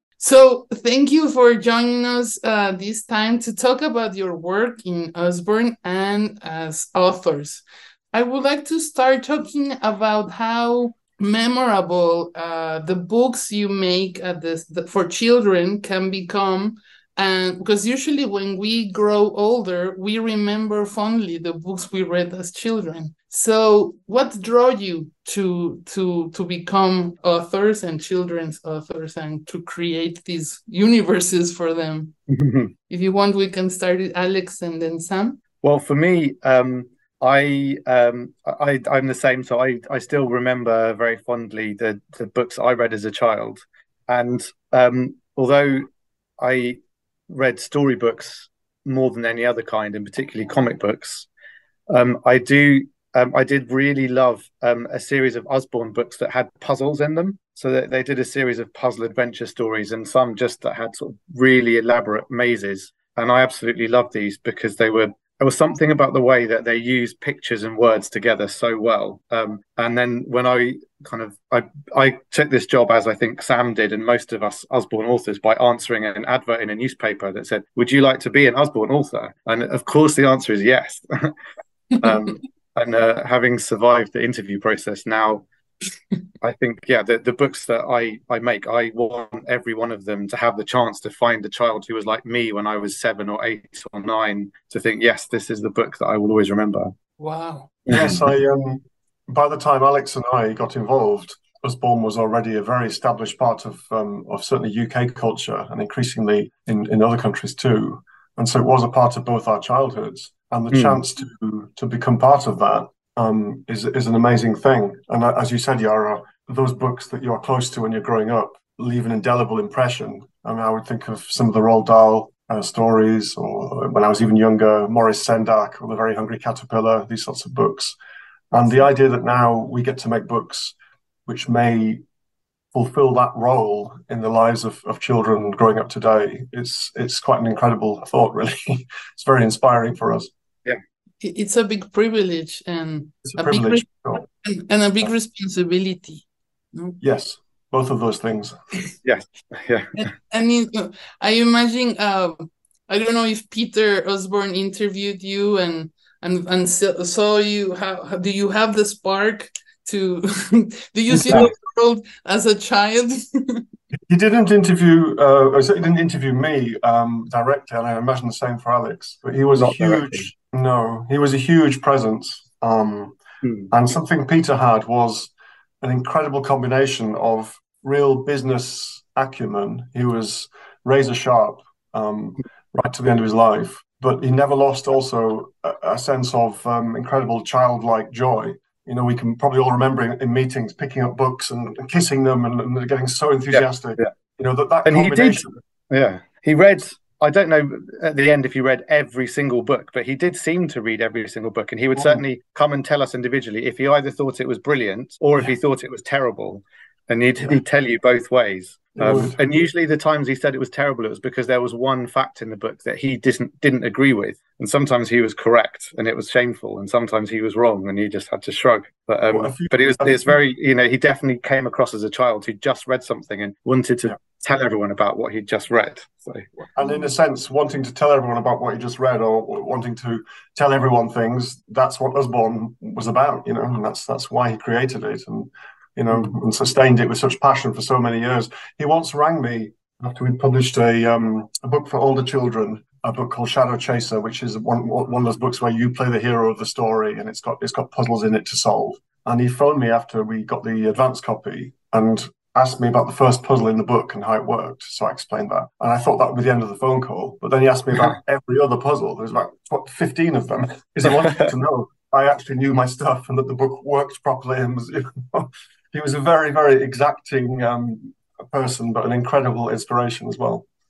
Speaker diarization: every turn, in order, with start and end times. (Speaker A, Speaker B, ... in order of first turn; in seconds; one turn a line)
Speaker A: 0.2-32.1
Speaker B: 32.3-32.7
Speaker A: 32.9-35.4
Speaker B: 35.6-45.9
Speaker B: 46.4-46.8
Speaker B: 47.3-51.3
Speaker B: 51.9-81.3
Speaker B: 82.0-85.5
Speaker B: 86.4-96.9
Speaker A: 97.2-97.7
Speaker B: 97.9-98.2
Speaker C: 97.9-128.0
Speaker B: 110.7-111.0
Speaker C: 128.5-130.8
Speaker C: 131.3-132.0
Speaker C: 132.7-140.3
Speaker A: 141.2-146.2
Speaker C: 143.2-144.3
Speaker C: 147.0-148.6
Speaker B: 149.0-150.0
Speaker A: 149.9-163.6
Speaker C: 164.1-195.6
Speaker B: 169.6-170.3
Speaker B: 173.4-173.7
Speaker B: 193.5-194.1
Speaker B: 194.9-226.5
Speaker C: 208.9-209.4
Speaker C: 219.3-220.3
Speaker C: 226.8-270.7